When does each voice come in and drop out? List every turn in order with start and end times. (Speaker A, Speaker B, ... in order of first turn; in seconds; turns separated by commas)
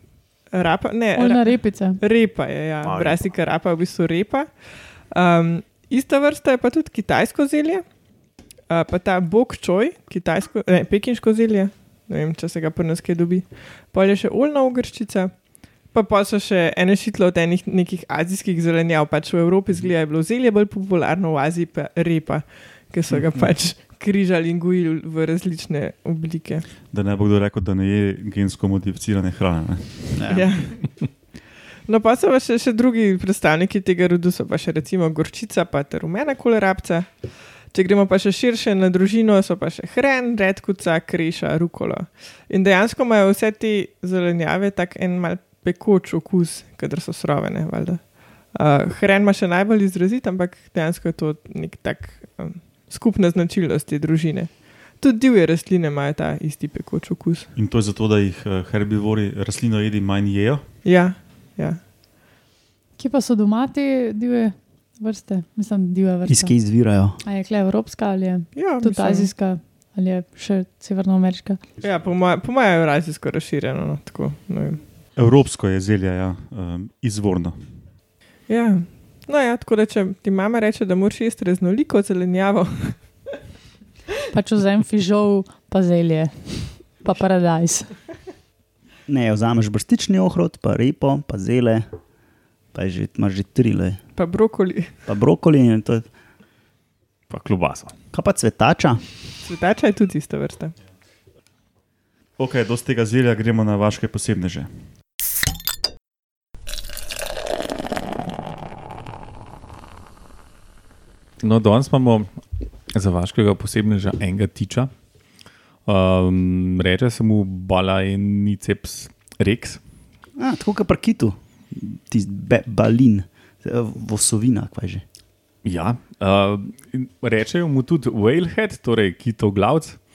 Speaker A: 0.5-8.0, Speaker B: 1.1-2.0, Speaker C: 2.8-3.2, Speaker A: 8.7-26.7, Speaker D: 26.9-30.1, Speaker E: 30.1-30.5, Speaker A: 30.3-31.1, Speaker A: 31.9-57.5, Speaker D: 57.6-60.6, Speaker A: 60.8-61.8, Speaker B: 63.0-66.5, Speaker E: 66.3-67.2, Speaker B: 67.2-71.6, Speaker A: 68.5-69.3, Speaker A: 71.8-74.8, Speaker D: 75.2-77.6, Speaker A: 78.5-83.3, Speaker B: 84.3-88.0, Speaker E: 89.1-91.9, Speaker E: 92.7-94.0, Speaker A: 94.2-94.9, Speaker E: 95.1-96.0, Speaker C: 97.3-97.9, Speaker E: 98.1-99.0, Speaker A: 99.4-100.8, Speaker D: 102.4-104.7, Speaker C: 111.4-112.3, Speaker C: 112.9-114.9, Speaker C: 115.9-119.8, Speaker E: 120.4-125.0, Speaker C: 125.6-130.0